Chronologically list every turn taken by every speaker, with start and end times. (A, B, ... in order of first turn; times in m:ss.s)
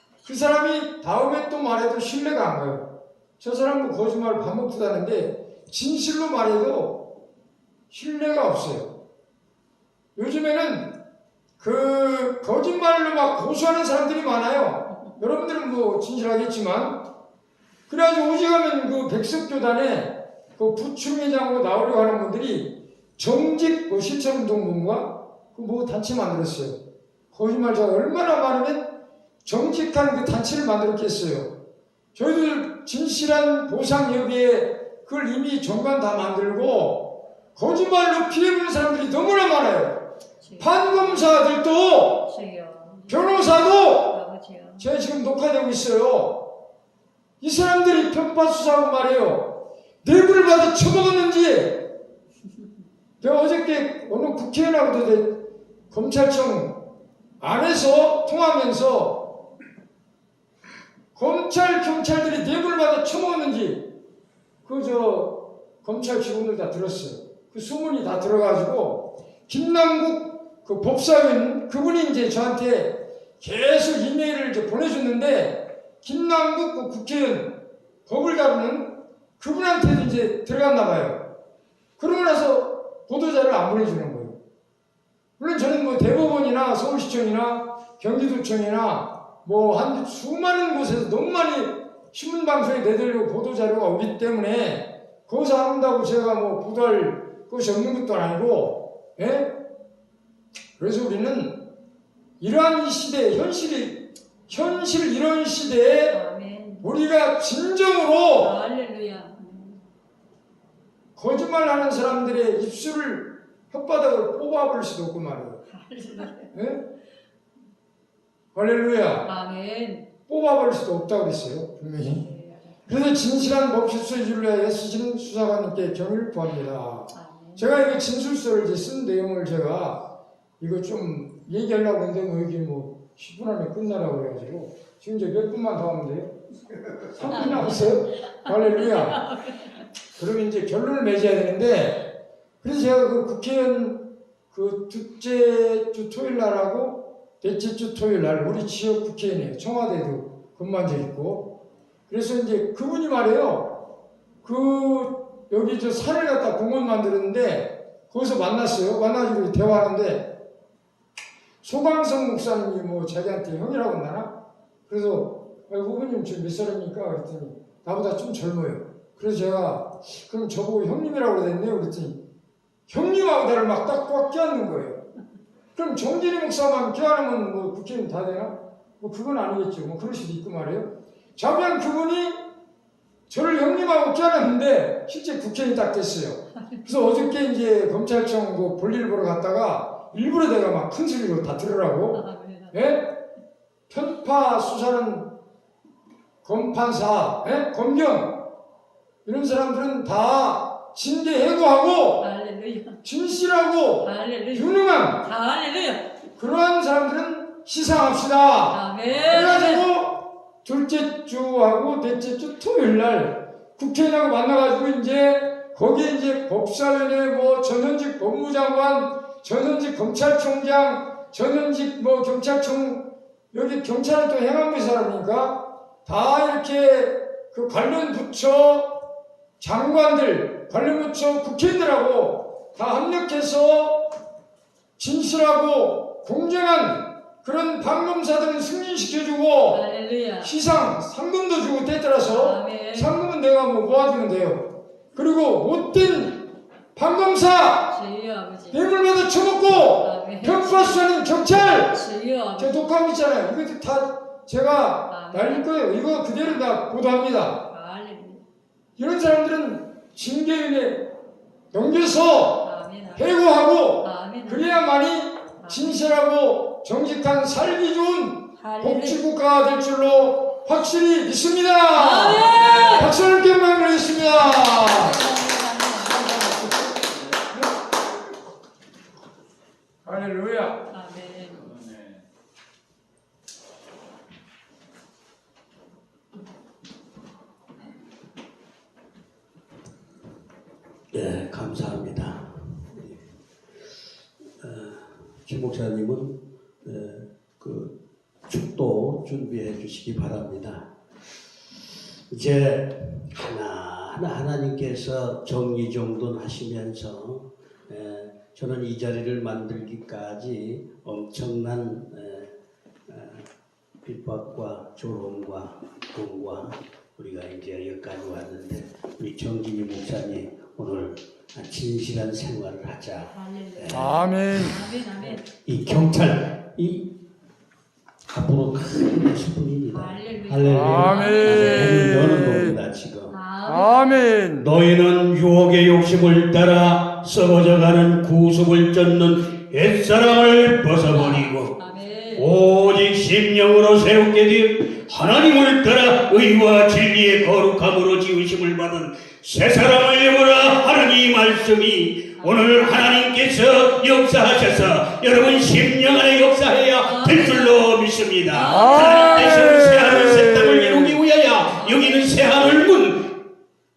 0:00.2-0:02.9 A
0:03.4-0:07.1 A
0:07.9-0:08.9 A
0:10.1-0:10.9 A
0:11.6-0:17.0 A
0:17.9-0:26.8 A
0:27.3-0:28.9 A
0:29.4-0:31.5 A
0:32.1-0:40.0 A
0:40.4-0:41.3 B
0:40.6-0:42.3 A
0:42.2-0:44.9 B
0:43.1-0:44.2 A
0:44.8-0:46.5 A
0:47.4-0:51.9 A
0:53.2-0:56.8 A
0:57.4-0:59.4 A
1:01.1-1:03.9 A
1:04.6-1:21.2 A
1:22.0-1:24.4 A
1:25.4-1:39.5 A
1:40.8-1:41.6 A
1:42.4-1:46.2 A
1:46.1-1:46.9 B
1:46.8-1:48.6 A
1:48.4-1:49.8 B
1:51.2-1:55.6 A
1:55.7-1:56.5 B
1:56.5-1:56.8 A
1:58.5-1:59.3 A
1:59.2-2:00.1 B
2:00.3-2:02.3 A
2:02.0-2:02.8 B
2:02.9-2:10.0 A
2:07.1-2:07.6 B
2:10.6-2:16.4 A
2:16.9-2:19.2 A
2:17.2-2:19.8 B
2:20.2-2:31.5 A
2:32.1-2:33.8 A
2:34.4-2:40.3 A
2:41.6-2:44.3 A
2:44.9-2:52.2 A
2:52.9-2:55.0 A
2:55.7-3:02.4 A
3:03.3-3:13.2 A
3:12.1-3:12.8 B
3:13.9-3:15.3 A
3:16.4-3:18.4 A
3:19.2-3:22.3 A
3:22.2-3:23.0 B
3:23.0-3:25.3 A
3:24.0-3:26.1 B
3:26.4-3:49.1 A
3:28.7-3:29.9 B
3:49.6-3:54.2 A
3:55.0-3:59.8 A
3:59.7-4:00.5 B
4:00.4-4:08.0 A
4:02.2-4:03.1 B
4:07.9-4:08.8 B
4:08.7-4:12.0 A
4:10.0-4:11.1 B
4:11.8-4:12.9 B
4:12.6-4:17.7 A
4:15.1-4:15.7 B
4:17.7-4:18.4 B
4:19.0-4:21.1 A
4:21.7-4:35.2 A
4:22.6-4:23.3 B
4:24.0-4:24.9 B
4:25.6-4:26.1 B
4:28.6-4:29.2 B
4:31.9-4:33.2 B
4:34.4-4:37.0 B
4:40.0-4:40.8 A
4:40.9-4:41.7 B
4:51.1-4:53.2 C
4:54.6-4:57.9 C
4:58.5-5:00.9 C
5:02.3-5:12.5 C
5:13.1-5:13.4 C
5:14.0-5:24.1 C
5:23.3-5:25.4 B
5:23.9-5:24.8 A
5:25.6-5:27.1 C
5:28.3-5:33.4 C
5:29.9-5:32.2 B
5:30.6-5:32.8 A
5:33.3-5:34.0 B
5:33.6-5:34.7 A
5:34.6-5:41.7 C
5:41.1-5:42.5 B
5:42.4-6:03.3 C
5:52.4-5:52.8 B
5:57.0-5:57.8 B
5:58.5-5:59.8 B
5:58.9-6:01.1 A
6:01.7-6:02.3 B